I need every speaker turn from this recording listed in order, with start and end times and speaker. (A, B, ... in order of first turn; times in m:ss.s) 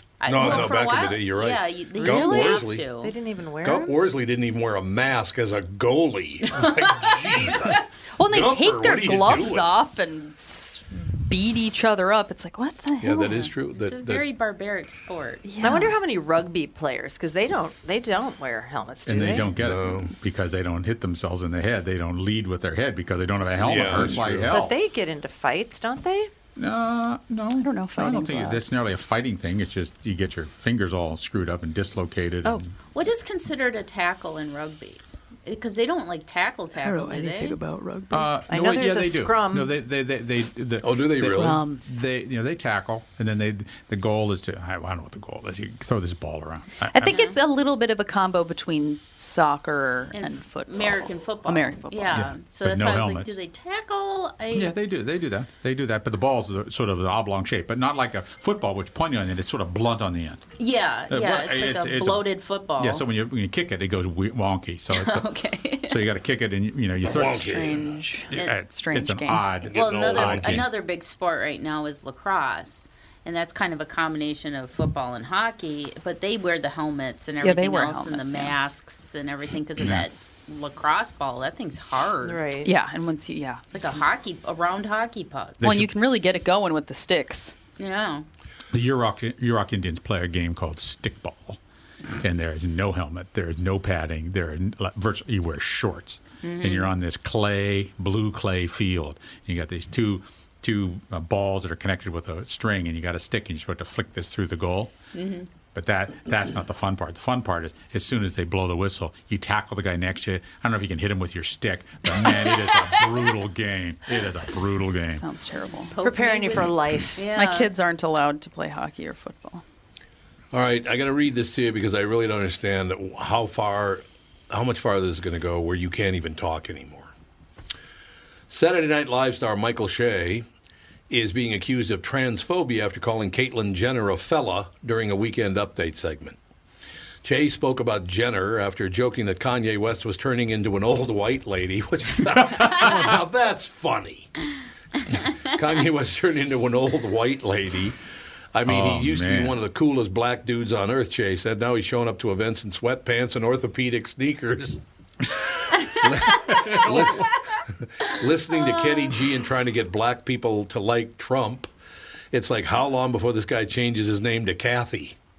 0:00.2-0:03.1 A
0:00.2-0:02.9 B
0:02.0-0:04.0 C
0:03.6-0:09.7 B
0:06.5-0:07.1 A
0:08.2-0:13.5 D
0:13.0-0:14.2 B
0:13.7-0:15.4 A
0:15.4-0:16.0 D
0:15.6-0:19.5 C
0:19.0-0:24.7 E
0:19.6-0:20.1 B
0:23.6-0:24.6 B
0:24.5-0:26.3 C
0:26.6-0:32.7 E
0:27.6-0:28.6 D
0:32.9-0:37.6 A
0:36.8-0:38.3 D
0:38.1-0:47.1 E
0:38.5-0:39.8 C
0:40.8-0:41.6 B
0:41.2-0:41.8 D
0:46.9-0:52.2 D
0:47.0-0:47.4 A
0:50.1-0:54.7 A
0:52.1-0:53.3 E
0:54.5-1:00.4 E
1:00.6-1:03.0 A
1:01.1-1:05.3 E
1:04.9-1:06.1 A
1:05.8-1:07.5 E
1:07.1-1:08.0 B
1:07.4-1:09.5 D
1:08.3-1:10.6 E
1:09.6-1:10.7 B
1:09.7-1:22.4 A
1:17.4-1:18.6 D
1:22.2-1:22.7 C
1:22.6-1:23.6 D
1:23.7-1:25.6 A
1:25.6-1:25.9 E
1:25.6-1:27.5 D
1:27.8-1:28.3 A
1:28.7-1:31.6 E
1:32.2-1:44.9 E
1:36.4-1:36.9 A
1:45.1-1:45.5 A
1:45.7-1:55.2 E
1:55.1-1:55.9 D
1:55.8-1:57.7 A
1:56.0-1:57.2 C
1:57.4-1:59.6 D
2:00.5-2:07.1 B
2:08.5-2:10.4 B
2:11.1-2:16.4 B
2:17.2-2:24.3 B
2:22.6-2:22.9 E
2:25.1-2:28.0 B
2:28.5-2:34.8 B
2:28.6-2:29.6 E
2:35.4-2:41.7 B
2:36.5-2:37.2 E
2:38.1-2:39.3 A
2:42.3-2:45.2 B